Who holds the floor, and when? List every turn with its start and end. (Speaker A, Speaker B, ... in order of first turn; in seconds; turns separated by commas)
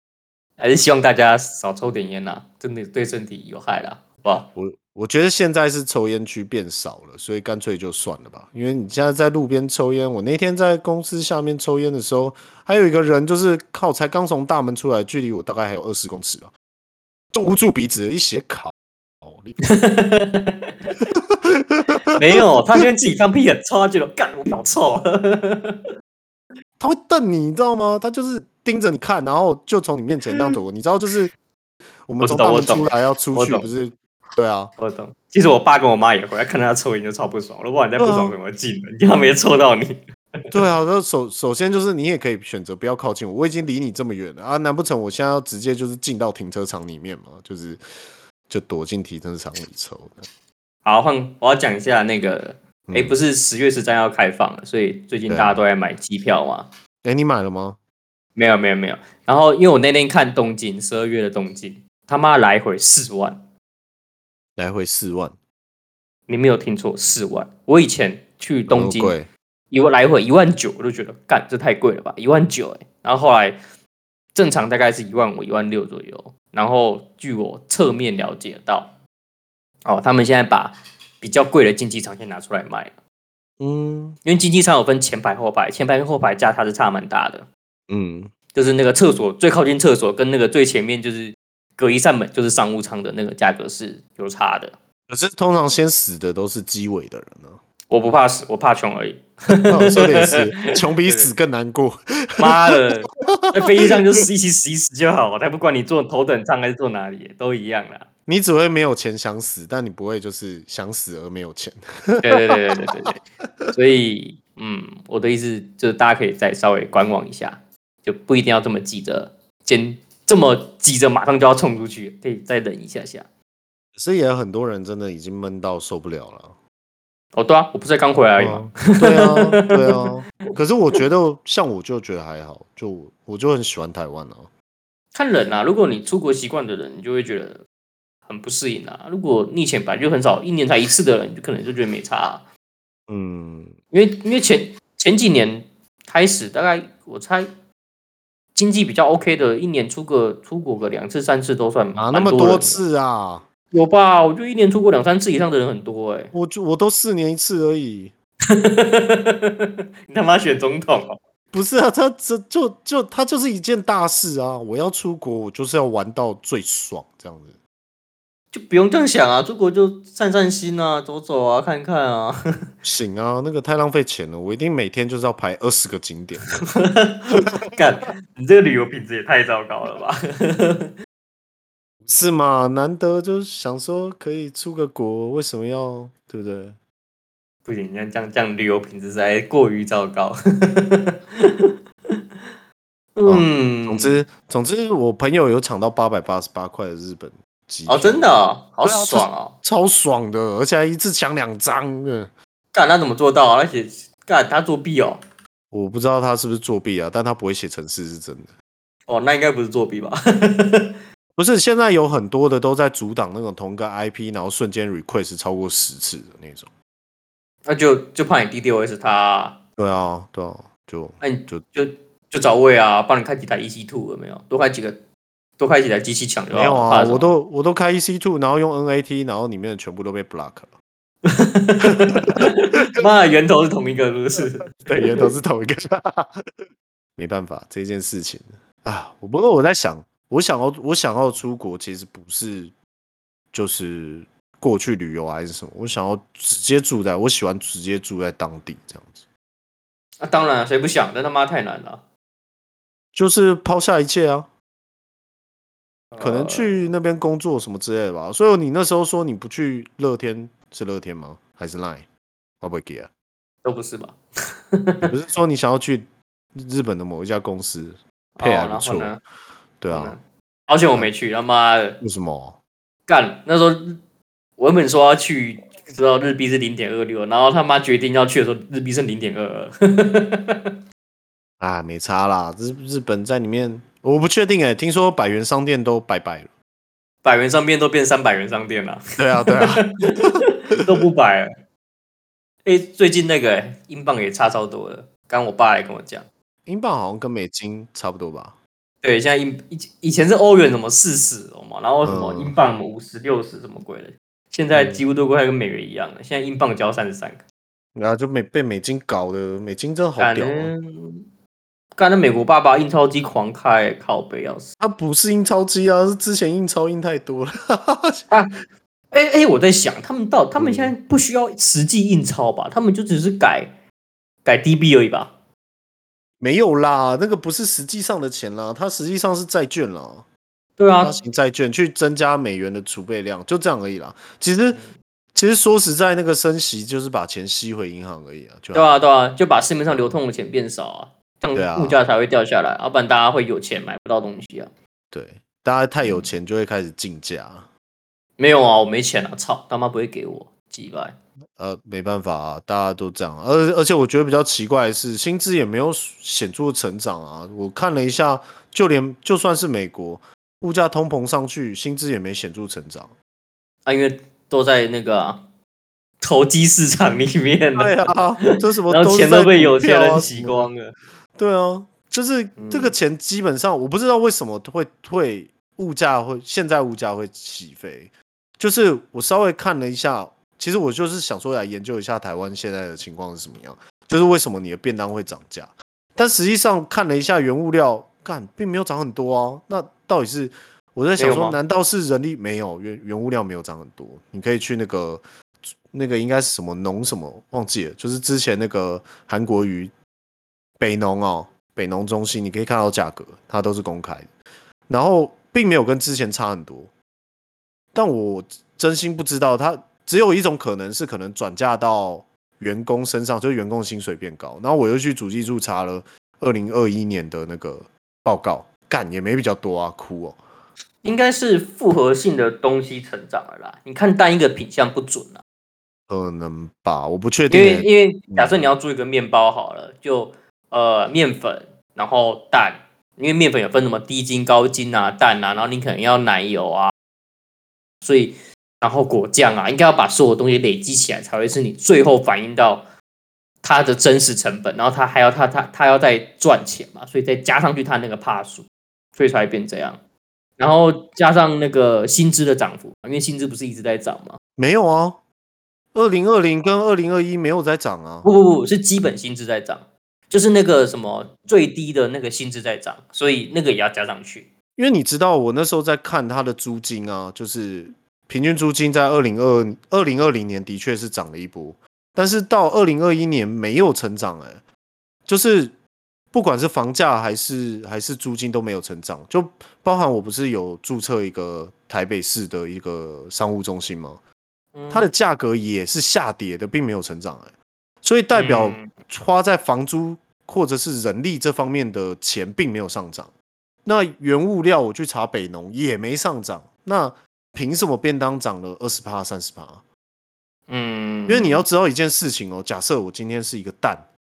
Speaker A: 0.6-4.5, Speaker B: 4.5-16.5, Speaker B: 17.3-19.6, Speaker A: 19.7-20.7, Speaker B: 21.0-22.0, Speaker A: 22.1-25.8, Speaker B: 26.8-31.3, Speaker B: 32.1-34.7, Speaker A: 32.2-33.7, Speaker A: 34.8-40.4, Speaker B: 38.0-38.4, Speaker B: 40.5-47.8, Speaker B: 48.5-50.3, Speaker A: 50.8-56.7, Speaker B: 52.9-53.2, Speaker B: 55.3-55.6, Speaker B: 57.0-57.8, Speaker A: 58.4-63.4, Speaker B: 64.6-65.4, Speaker A: 66.3-69.2, Speaker B: 68.7-69.3, Speaker A: 69.7-73.6, Speaker A: 74.3-79.0, Speaker A: 79.8-83.0, Speaker B: 83.6-84.2, Speaker A: 84.2-87.5, Speaker B: 87.9-88.3, Speaker A: 88.5-94.8, Speaker B: 95.1-97.6, Speaker A: 97.9-101.3, Speaker B: 99.7-102.8, Speaker A: 102.4-108.1, Speaker B: 103.6-104.0, Speaker B: 108.3-112.5, Speaker A: 112.2-113.2, Speaker A: 113.7-123.3, Speaker B: 124.0-126.6, Speaker A: 127.3-130.5, Speaker B: 128.4-134.5, Speaker A: 135.1-137.6, Speaker A: 138.3-142.4, Speaker B: 143.1-143.8, Speaker A: 143.9-147.5, Speaker A: 148.6-152.8, Speaker B: 152.0-153.5, Speaker A: 153.7-156.3, Speaker B: 156.3-158.1, Speaker A: 158.5-161.2, Speaker B: 161.5-167.6, Speaker A: 168.5-172.4, Speaker B: 172.8-176.7, Speaker A: 176.6-180.9, Speaker B: 182.1-186.8, Speaker A: 187.7-192.2, Speaker A: 193.2-194.2, Speaker B: 193.3-202.3, Speaker A: 197.9-199.6, Speaker A: 202.7-205.2, Speaker B: 205.7-208.5, Speaker A: 209.1-211.0, Speaker B: 211.4-216.7, Speaker A: 217.7-219.6, Speaker B: 219.8-221.6, Speaker A: 221.2-225.0, Speaker A: 225.6-227.3, Speaker B: 226.5-230.7, Speaker A: 231.2-235.2, Speaker B: 232.1-232.5, Speaker B: 234.8-236.4, Speaker B: 237.2-242.7, Speaker B: 243.5-249.3, Speaker A: 250.2-252.0, Speaker B: 253.1-254.5, Speaker A: 256.1-256.7, Speaker B: 256.2-262.1, Speaker B: 262.6-263.1, Speaker A: 263.6-264.2, Speaker A: 264.7-265.1, Speaker B: 265.1-269.2, Speaker A: 268.4-269.2, Speaker B: 269.8-270.2, Speaker A: 269.9-272.0, Speaker B: 272.0-272.6, Speaker A: 273.1-274.0, Speaker A: 274.6-280.7, Speaker B: 281.6-286.5, Speaker A: 287.2-291.5, Speaker B: 289.2-290.3, Speaker A: 292.6-296.3, Speaker B: 296.7-298.6, Speaker A: 299.0-307.4, Speaker B: 302.1-302.6, Speaker B: 304.7-305.0, Speaker B: 307.9-310.7, Speaker A: 310.2-311.2, Speaker A: 312.0-314.7, Speaker B: 314.8-318.2, Speaker A: 318.3-318.6, Speaker A: 319.1-323.8, Speaker B: 320.6-320.9, Speaker A: 324.4-325.3, Speaker B: 326.4-330.3, Speaker A: 330.8-331.2, Speaker B: 331.0-334.8, Speaker B: 335.3-339.0, Speaker A: 338.7-344.7, Speaker B: 341.5-342.0, Speaker B: 345.1-347.7, Speaker A: 346.0-346.3, Speaker A: 348.4-351.2, Speaker B: 351.6-363.1, Speaker A: 363.9-365.4, Speaker A: 366.2-368.2, Speaker B: 367.8-370.7, Speaker A: 368.9-371.0, Speaker B: 371.4-399.9, Speaker A: 372.6-372.9, Speaker A: 391.2-391.6, Speaker B: 400.8-404.3, Speaker B: 404.9-406.9, Speaker B: 407.9-420.4, Speaker A: 421.0-425.4, Speaker B: 426.1-428.6, Speaker A: 427.5-436.9, Speaker A: 438.0-442.9, Speaker A: 443.6-450.0, Speaker A: 450.6-454.4, Speaker B: 454.6-455.2, Speaker B: 455.9-458.3, Speaker A: 458.2-464.5, Speaker B: 464.8-474.6, Speaker B: 475.3-475.8, Speaker B: 476.3-484.2, Speaker A: 484.7-485.1, Speaker B: 484.9-493.3, Speaker A: 488.3-488.9, Speaker B: 493.9-499.9, Speaker A: 500.7-501.6, Speaker B: 501.3-504.1